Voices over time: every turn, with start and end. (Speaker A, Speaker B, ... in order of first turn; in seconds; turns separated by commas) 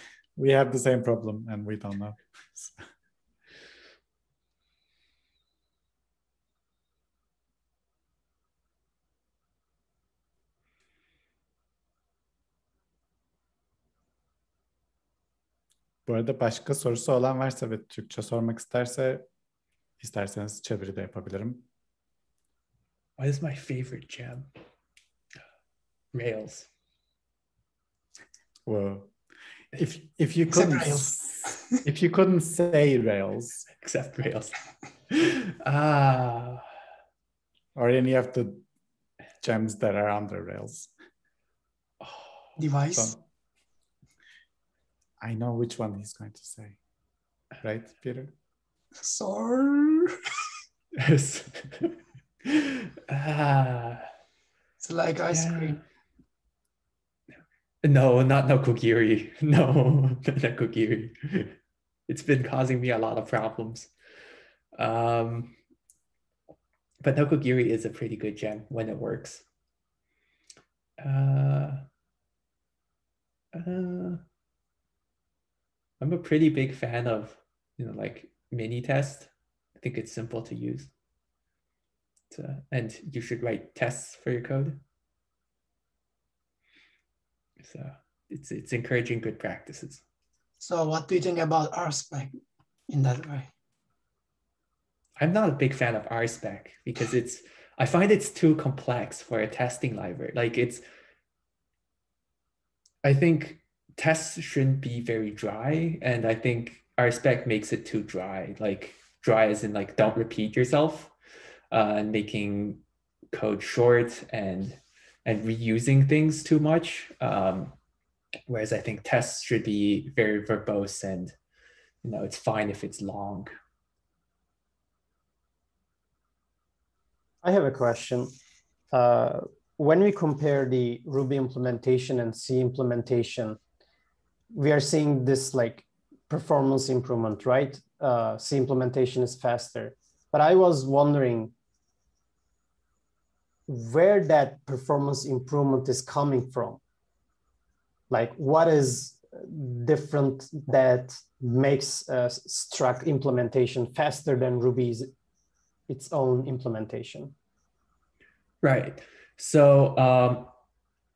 Speaker A: 0.3-2.8, Speaker A: 16.1-19.3, Speaker A: 20.0-21.6, Speaker B: 23.2-24.5, Speaker B: 26.1-26.7, Speaker A: 28.6-29.1, Speaker A: 29.7-33.7, Speaker C: 30.5-31.7, Speaker B: 33.8-34.6, Speaker B: 35.1-36.6, Speaker A: 37.7-38.6, Speaker A: 39.4-40.9, Speaker B: 42.0-42.6, Speaker C: 42.6-43.1, Speaker A: 42.9-43.2, Speaker A: 45.2-46.8, Speaker A: 47.6-48.3, Speaker C: 49.0-50.1, Speaker B: 51.0-54.0, Speaker C: 54.8-55.8, Speaker B: 55.3-55.8, Speaker B: 57.8-61.5, Speaker B: 62.1-63.9, Speaker B: 64.8-65.5, Speaker B: 67.0-69.4, Speaker B: 71.0-71.8, Speaker B: 73.5-74.2, Speaker B: 76.0-80.9, Speaker B: 82.3-84.8, Speaker B: 87.6-90.0, Speaker C: 90.6-92.4, Speaker C: 92.9-93.5, Speaker B: 95.2-100.8, Speaker B: 103.0-111.1, Speaker B: 111.7-117.7, Speaker B: 118.5-121.3, Speaker B: 122.0-123.5, Speaker D: 127.4-128.3, Speaker D: 128.9-133.6, Speaker D: 134.5-141.5, Speaker D: 143.7-146.8, Speaker D: 148.1-155.1, Speaker D: 155.9-157.3, Speaker B: 158.6-160.5